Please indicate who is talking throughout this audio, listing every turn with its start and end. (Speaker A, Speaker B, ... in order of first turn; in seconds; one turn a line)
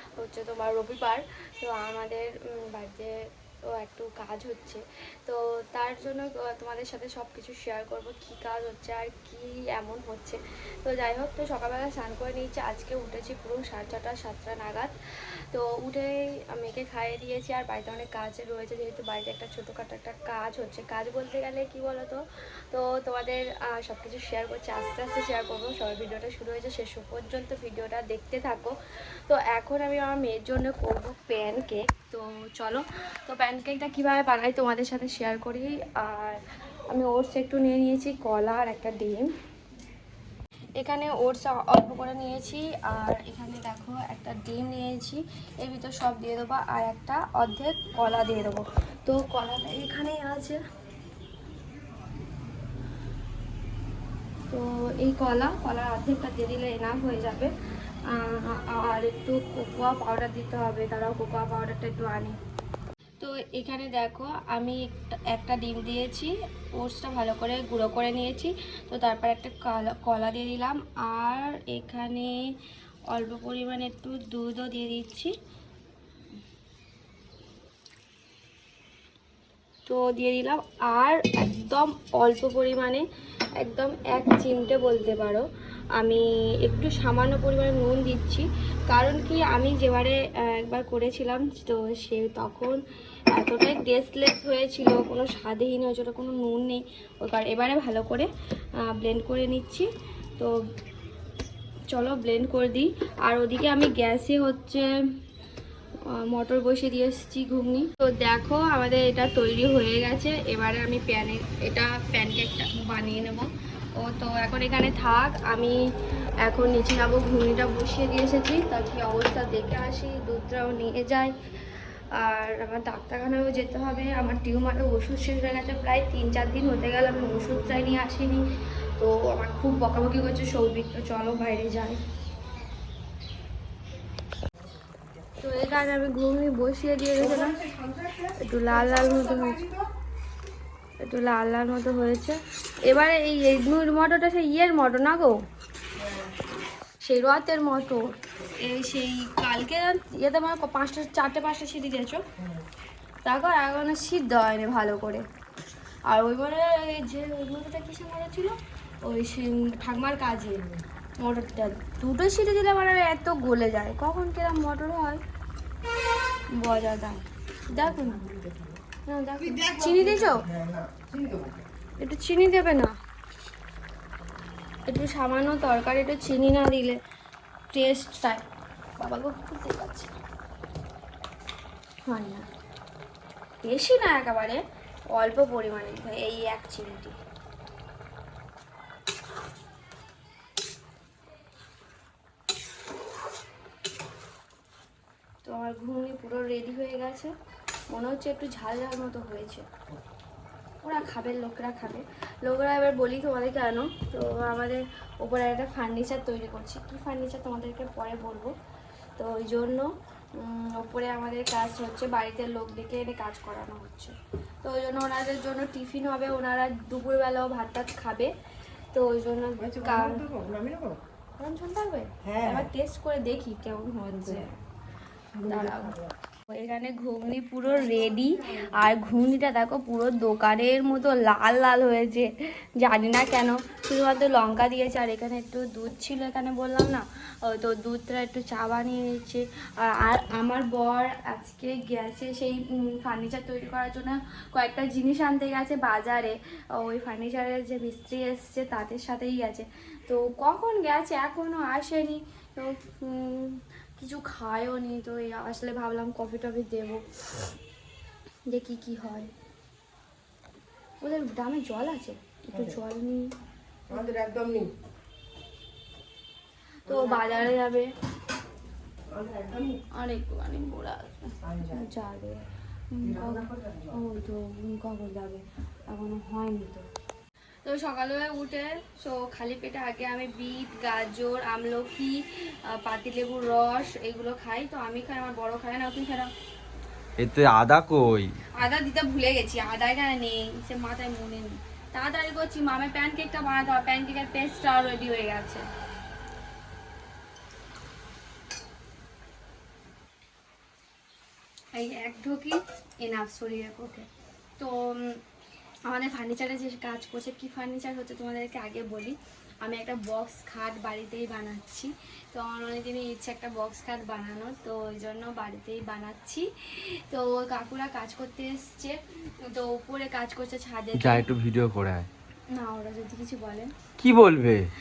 Speaker A: 0.2-3.2
Speaker A: 3.7-14.9
Speaker A: 15.5-28.8
Speaker A: 29.3-39.3
Speaker A: 40.8-50.6
Speaker A: 54.5-57.5
Speaker A: 58.1-62.4
Speaker A: 63.2-72.3
Speaker A: 73.1-75.3
Speaker A: 79.9-83.0
Speaker A: 83.6-92.8
Speaker A: 93.3-98.3
Speaker A: 98.8-100.5
Speaker A: 101.9-104.9
Speaker A: 106.1-115.8
Speaker A: 116.4-121.3
Speaker A: 122.2-128.4
Speaker A: 129.0-132.0
Speaker A: 135.4-137.6
Speaker B: 137.2-139.9
Speaker A: 138.4-139.6
Speaker A: 141.0-145.4
Speaker B: 146.0-146.2
Speaker A: 147.0-152.2
Speaker A: 153.2-155.3
Speaker A: 156.1-160.7
Speaker A: 161.2-165.2
Speaker A: 166.6-168.2
Speaker B: 168.0-168.8
Speaker A: 169.1-170.5
Speaker B: 169.4-171.7
Speaker A: 172.0-172.9
Speaker A: 174.9-177.0
Speaker A: 177.7-178.4
Speaker A: 179.0-180.2
Speaker A: 182.1-182.5
Speaker A: 183.6-187.2
Speaker A: 195.4-197.3
Speaker A: 197.9-199.7
Speaker A: 200.8-208.5
Speaker A: 209.2-218.3
Speaker A: 218.9-220.2
Speaker B: 219.6-221.0
Speaker A: 221.4-224.5
Speaker B: 222.2-222.7
Speaker B: 225.3-226.0
Speaker A: 225.4-257.5
Speaker A: 258.5-259.3
Speaker A: 261.0-263.3
Speaker B: 262.5-262.8
Speaker B: 263.9-264.7
Speaker A: 266.9-267.9
Speaker B: 266.9-267.5
Speaker B: 269.1-269.8
Speaker A: 269.9-276.9
Speaker B: 271.4-271.9
Speaker B: 273.1-273.9
Speaker A: 277.6-282.2
Speaker A: 282.7-286.3
Speaker C: 287.2-288.3
Speaker A: 288.6-295.6
Speaker A: 301.7-304.1
Speaker A: 304.6-305.2
Speaker A: 305.9-321.3
Speaker C: 321.0-322.1
Speaker A: 322.5-323.7
Speaker C: 324.0-324.7